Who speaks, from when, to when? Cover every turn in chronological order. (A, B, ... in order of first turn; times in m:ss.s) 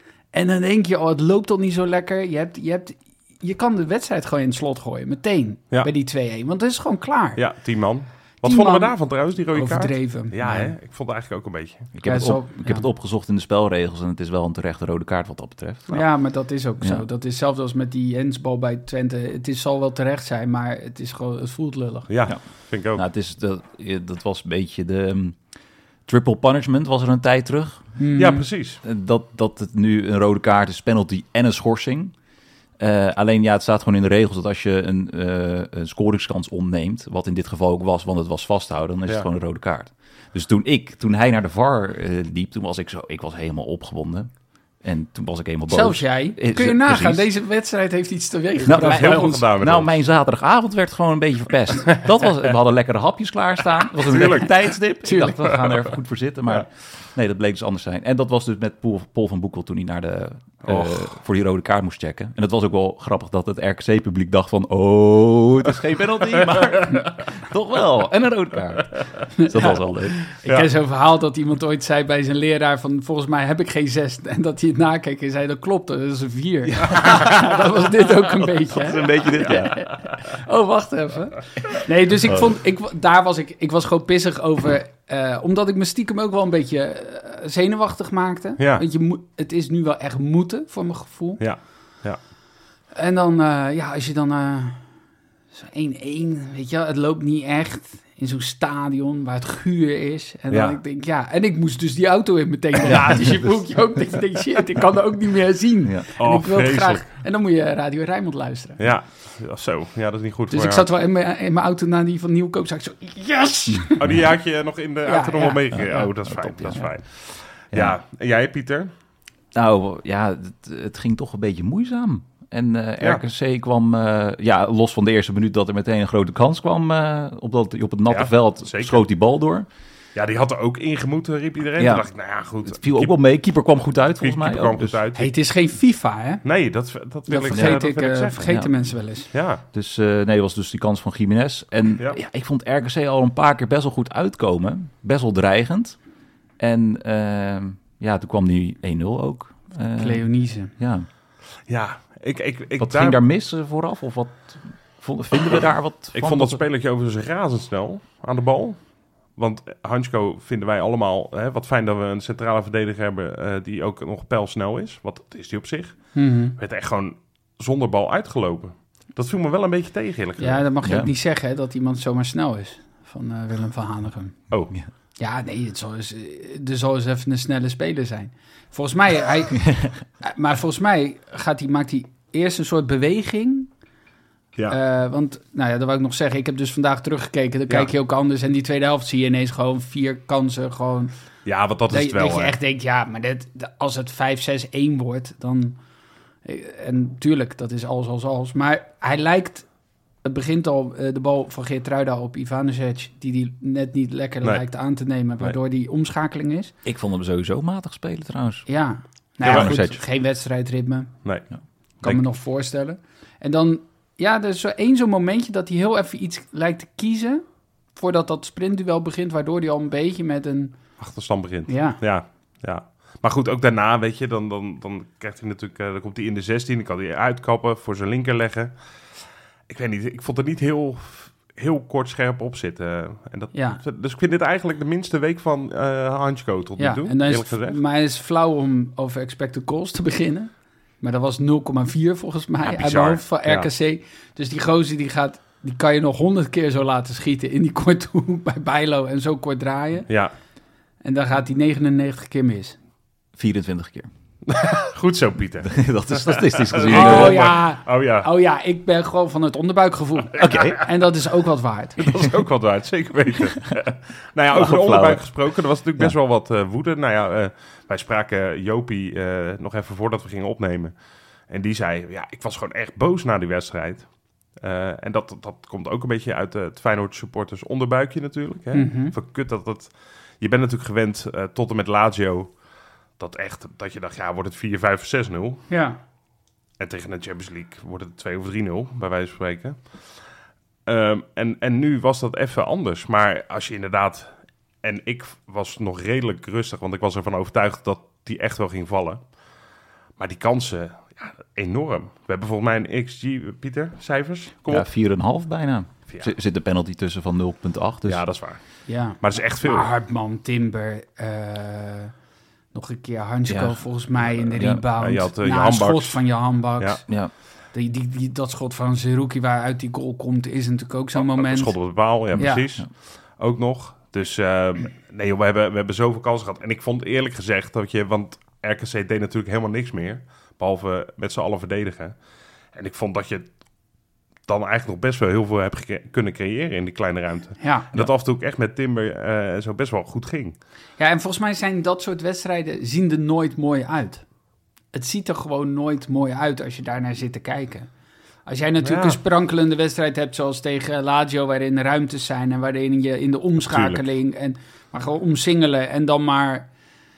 0:00.3-0:07.4 A
0:07.4-0:11.9 B
0:08.4-0:09.0 A
0:09.5-0:10.7 A
0:11.9-0:16.0 C
0:12.0-0:12.8 A
0:15.9-0:22.1 A
0:22.1-0:23.0 B
0:22.2-0:25.4 C
0:26.1-0:27.9 C
0:28.0-0:28.4 A
0:28.1-0:28.8 B
0:28.8-0:32.1 C
0:32.8-0:47.3 C
0:45.7-0:49.4 A
0:48.6-0:49.9 B
0:48.7-1:10.2 C
0:54.0-0:54.6 B
0:55.0-0:55.9 A
1:00.6-1:01.1 B
1:09.4-1:09.7 A
1:10.3-1:31.4 A
1:16.7-1:19.9 C
1:22.2-1:22.5 C
1:28.6-1:28.8 B
1:31.4-1:32.2 B
1:32.9-1:34.8 A
1:35.5-1:48.8 A
1:40.5-1:40.8 B
1:42.8-1:43.7 C
1:46.2-1:47.1 B
1:48.8-1:50.9 B
1:50.5-1:54.0 A
1:54.0-1:58.9 B
1:55.0-1:56.1 A
1:55.7-1:56.9 C
1:57.7-1:58.0 C
1:59.5-2:09.6 C
2:08.1-2:09.0 B
2:10.1-2:13.1 B
2:11.8-2:12.0 C
2:12.6-2:15.0 C
2:14.2-2:15.3 B
2:15.2-2:16.4 A
2:16.4-2:18.5 B
2:17.3-2:19.3 A
2:17.4-2:17.8 C
2:18.4-2:18.7 C
2:19.3-2:19.6 B
2:19.7-2:26.0 C
2:26.6-2:31.1 C
2:30.0-2:30.7 A
2:31.7-2:33.2 B
2:32.8-2:36.6 C
2:36.1-2:38.8 B
2:39.3-2:50.6 B
2:46.1-2:46.6 A
2:50.4-2:54.4 A
2:50.8-2:51.1 C
2:55.2-3:03.7 A
3:04.7-3:11.1 A
3:11.4-3:12.5 B
3:11.9-3:15.8 A
3:16.4-3:19.7 A
3:20.2-3:26.7 A
3:26.8-3:28.7 C
3:28.7-3:31.1 A
3:29.4-3:30.0 C
3:29.4-3:29.8 B
3:32.0-3:40.8 A
3:41.0-3:48.7 B
3:41.7-3:42.0 A
3:49.7-3:57.8 B
3:53.5-3:53.8 A
3:56.8-4:10.1 A
4:02.6-4:03.7 B
4:11.0-4:12.8 A
4:13.4-4:14.1 C
4:14.5-4:18.3 B
4:15.6-4:17.5 C
4:16.9-4:22.0 A
4:20.4-4:20.8 C
4:22.0-4:30.9 B
4:24.5-4:25.3 C
4:31.5-4:42.5 B
4:38.7-4:39.1 A
4:43.2-4:45.7 B
4:45.7-4:46.0 A
4:46.8-4:49.9 B
4:50.8-4:54.3 B
4:54.8-4:59.2 B
5:00.2-5:04.9 B
5:04.7-5:08.2 C
5:06.1-5:06.3 B
5:08.0-5:08.6 B
5:08.9-5:12.1 A
5:09.2-5:09.9 B
5:12.7-5:17.0 A
5:13.5-5:14.8 C
5:15.0-5:16.2 B
5:17.7-5:21.8 A
5:21.2-5:32.1 B
5:22.4-5:22.6 A
5:22.4-5:22.9 C
5:32.7-5:33.5 B
5:34.5-5:40.6 B
5:37.6-5:38.0 A
5:41.0-5:44.2 A
5:44.9-5:47.9 A
5:48.4-5:56.7 A
5:48.8-5:49.2 B
5:53.6-5:54.0 B